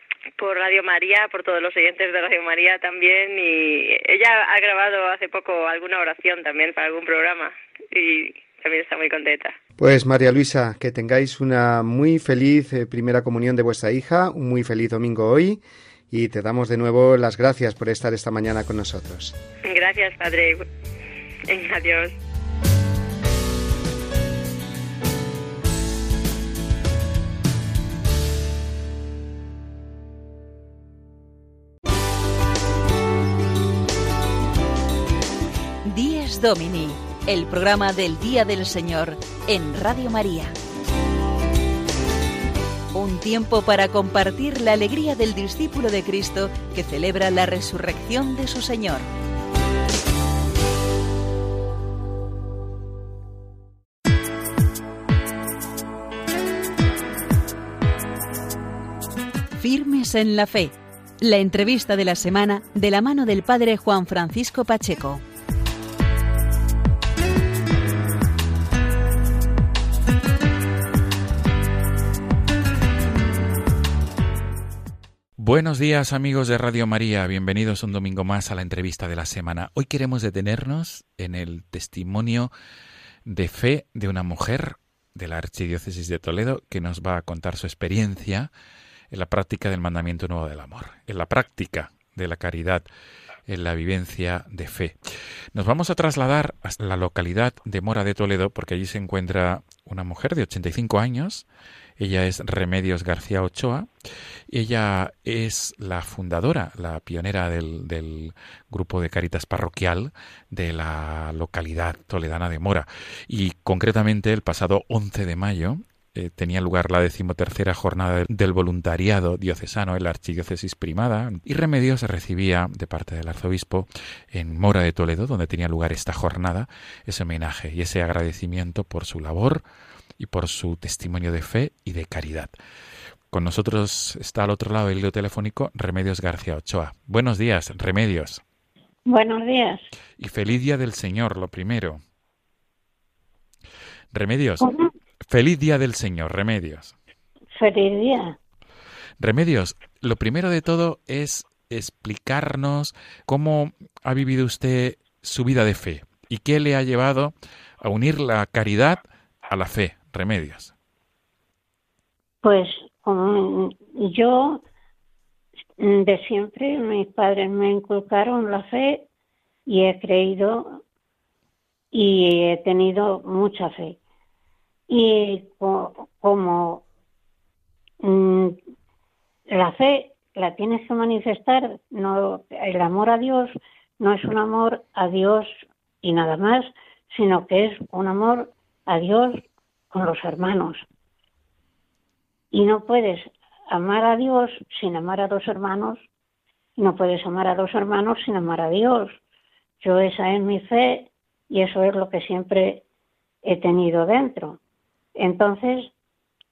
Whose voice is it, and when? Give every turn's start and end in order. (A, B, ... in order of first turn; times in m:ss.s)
0:00.4-0:09.6 A
0:09.8-0:19.4 B
0:19.6-0:20.7 A
0:21.5-0:22.2 A
0:35.8-0:40.6 C
0:42.9-0:49.1 C
0:59.6-1:05.2 C
1:15.4-1:22.5 D
1:23.2-1:28.5 D
1:29.1-1:32.8 D
1:33.5-1:35.0 D
1:35.5-1:41.5 D
1:42.0-1:43.9 D
1:44.5-2:09.6 D
2:10.2-2:12.5 D
2:13.3-2:18.4 D
2:19.1-2:19.9 E
2:20.2-2:22.0 D
2:24.1-2:24.7 D
2:24.6-2:24.9 E
2:25.3-2:26.9 D
2:27.5-2:28.4 E
2:29.2-2:40.7 D
2:42.4-2:44.6 E
2:45.8-2:49.1 E
2:49.7-2:50.8 E
2:51.9-2:54.0 E
2:54.9-2:56.8 E
2:58.0-2:58.6 E
2:59.5-3:10.8 E
3:12.5-3:16.0 E
3:16.8-3:19.2 E
3:19.8-3:22.8 E
3:23.4-3:24.6 E
3:25.2-3:25.9 E